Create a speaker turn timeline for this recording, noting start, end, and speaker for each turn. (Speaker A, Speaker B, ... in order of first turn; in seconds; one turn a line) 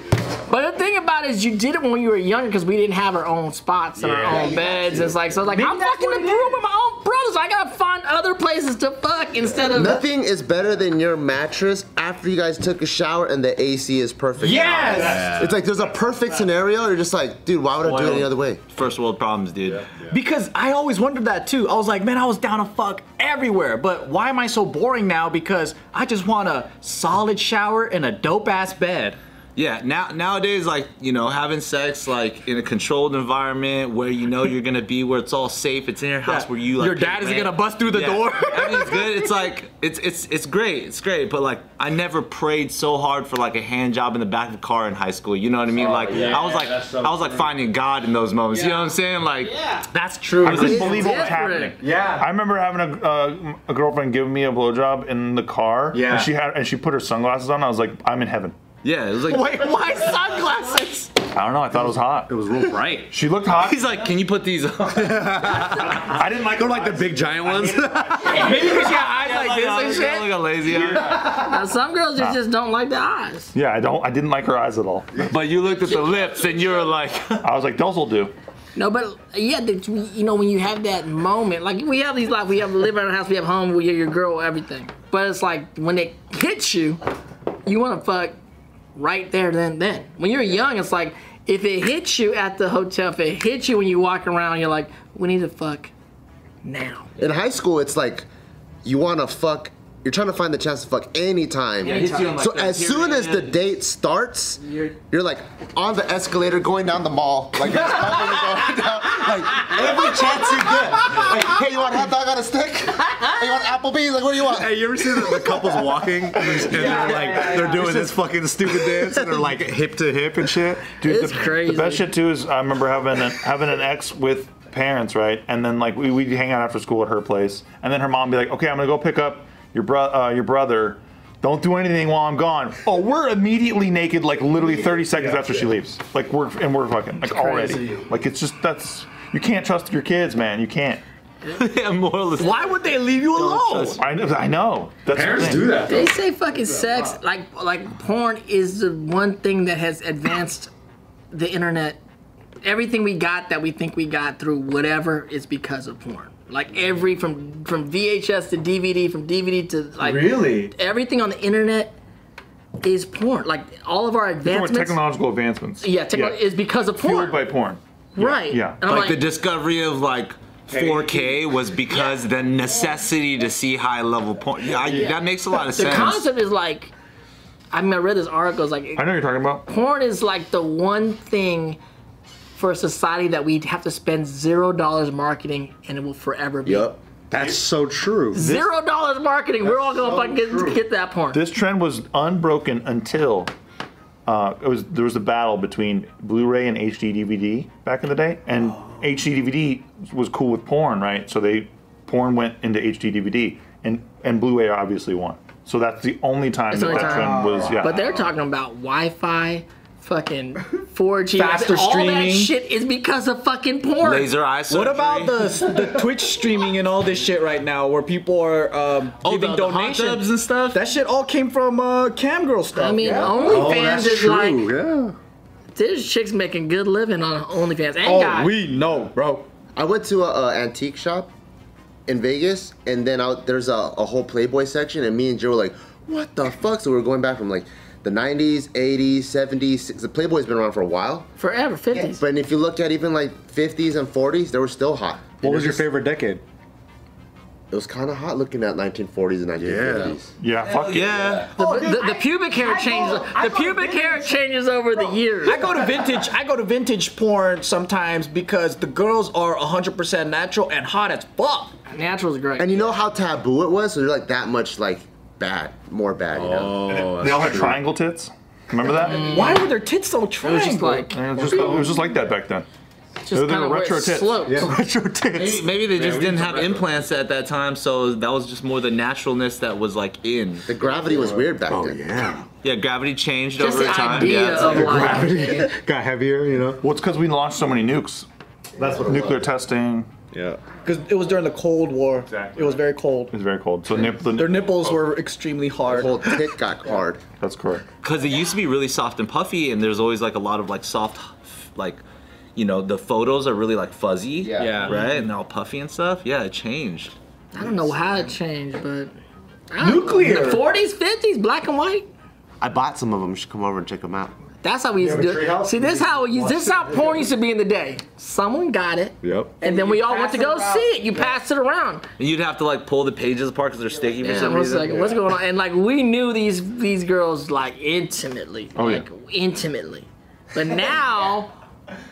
Speaker A: 0.5-10.0
Speaker B: 4.0-4.6
Speaker C: 4.3-5.2
Speaker D: 5.5-6.6
Speaker C: 9.7-18.6
Speaker D: 14.4-15.5
Speaker B: 14.9-15.5
Speaker E: 17.8-19.9
Speaker D: 20.1-29.2
Speaker E: 29.6-49.8
Speaker D: 36.3-39.3
Speaker B: 45.8-47.5
Speaker D: 46.1-46.6
Speaker D: 49.9-51.3
Speaker F: 50.4-58.5
Speaker A: 50.6-51.8
Speaker D: 51.8-52.2
Speaker B: 51.9-52.2
Speaker D: 55.9-56.3
Speaker E: 58.8-59.6
Speaker D: 59.3-61.2
Speaker F: 61.3-62.3
Speaker B: 61.7-63.1
Speaker F: 63.1-63.8
Speaker E: 63.6-65.8
Speaker B: 64.9-68.3
Speaker F: 65.7-68.5
Speaker D: 68.2-70.5
Speaker E: 68.4-71.2
Speaker F: 70.6-71.5
Speaker A: 71.2-73.5
Speaker F: 73.5-75.4
Speaker E: 75.2-77.5
Speaker F: 77.4-78.3
Speaker A: 78.8-87.0
Speaker A: 87.7-88.3
Speaker A: 89.0-95.9
Speaker A: 96.6-97.1
Speaker C: 97.2-98.3
Speaker C: 98.8-115.6
Speaker E: 101.8-103.5
Speaker B: 109.8-111.0
Speaker B: 114.5-121.0
Speaker F: 116.5-117.9
Speaker A: 116.9-117.7
Speaker D: 117.2-117.6
Speaker F: 121.0-141.0
Speaker A: 121.0-122.1
Speaker B: 135.1-135.6
Speaker A: 137.2-138.1
Speaker E: 141.5-144.0
Speaker D: 142.4-144.0
Speaker F: 144.0-145.9
Speaker B: 145.1-146.2
Speaker A: 145.8-150.7
Speaker A: 151.3-152.0
Speaker A: 152.6-161.9
Speaker B: 160.0-160.7
Speaker A: 162.8-165.0
Speaker F: 164.4-166.4
Speaker A: 165.8-167.4
Speaker F: 167.0-168.8
Speaker A: 168.2-169.2
Speaker E: 168.8-176.3
Speaker B: 170.7-171.2
Speaker A: 175.7-176.9
Speaker A: 177.7-179.1
Speaker F: 179.0-179.6
Speaker A: 179.7-181.8
Speaker A: 182.6-186.9
Speaker C: 186.7-187.0
Speaker B: 187.3-188.5
Speaker A: 188.3-191.4
Speaker F: 188.4-188.7
Speaker B: 189.7-190.8
Speaker F: 191.3-193.5
Speaker F: 194.3-208.1
Speaker A: 206.7-214.3
Speaker B: 206.9-207.8
Speaker D: 211.4-212.5
Speaker E: 214.0-215.6
Speaker D: 214.7-223.4
Speaker E: 219.2-220.8
Speaker A: 222.7-224.7
Speaker B: 223.1-225.2
Speaker A: 225.8-228.5
Speaker B: 228.1-229.3
Speaker D: 228.1-229.4
Speaker C: 229.8-231.3
Speaker C: 232.1-241.3
Speaker A: 241.4-242.2
Speaker C: 241.9-245.8
Speaker B: 245.4-246.4
Speaker C: 247.7-250.3
Speaker B: 249.6-250.2
Speaker F: 250.4-251.4
Speaker E: 250.6-251.5
Speaker D: 251.5-261.8
Speaker A: 251.6-255.7
Speaker B: 255.8-256.2
Speaker A: 261.9-262.7
Speaker C: 262.6-266.7
Speaker B: 266.3-267.8
Speaker F: 266.9-269.3
Speaker A: 268.9-269.7
Speaker D: 269.1-271.2
Speaker A: 270.4-272.1
Speaker F: 271.1-272.7
Speaker A: 273.2-274.7
Speaker F: 273.3-274.5
Speaker B: 274.4-276.9
Speaker E: 275.3-280.7
Speaker C: 280.7-282.1
Speaker B: 281.0-282.5
Speaker E: 282.6-285.2
Speaker A: 283.6-285.7
Speaker B: 284.5-286.8
Speaker F: 286.8-288.3
Speaker B: 288.8-289.4
Speaker F: 288.8-290.1
Speaker B: 290.3-290.7
Speaker D: 290.7-293.3
Speaker B: 292.3-292.8
Speaker F: 293.3-294.7
Speaker D: 294.3-296.5
Speaker C: 295.9-297.2
Speaker F: 297.4-297.9
Speaker E: 298.0-302.0
Speaker E: 302.6-307.2
Speaker C: 304.4-304.9
Speaker D: 304.6-305.1
Speaker A: 307.5-309.1
Speaker A: 309.7-312.1
Speaker B: 309.8-310.6
Speaker C: 312.6-314.3
Speaker A: 314.6-322.1
Speaker B: 315.0-317.3
Speaker B: 319.2-319.6
Speaker D: 319.6-320.9
Speaker E: 322.2-325.1
Speaker A: 324.2-331.5
Speaker F: 328.8-329.1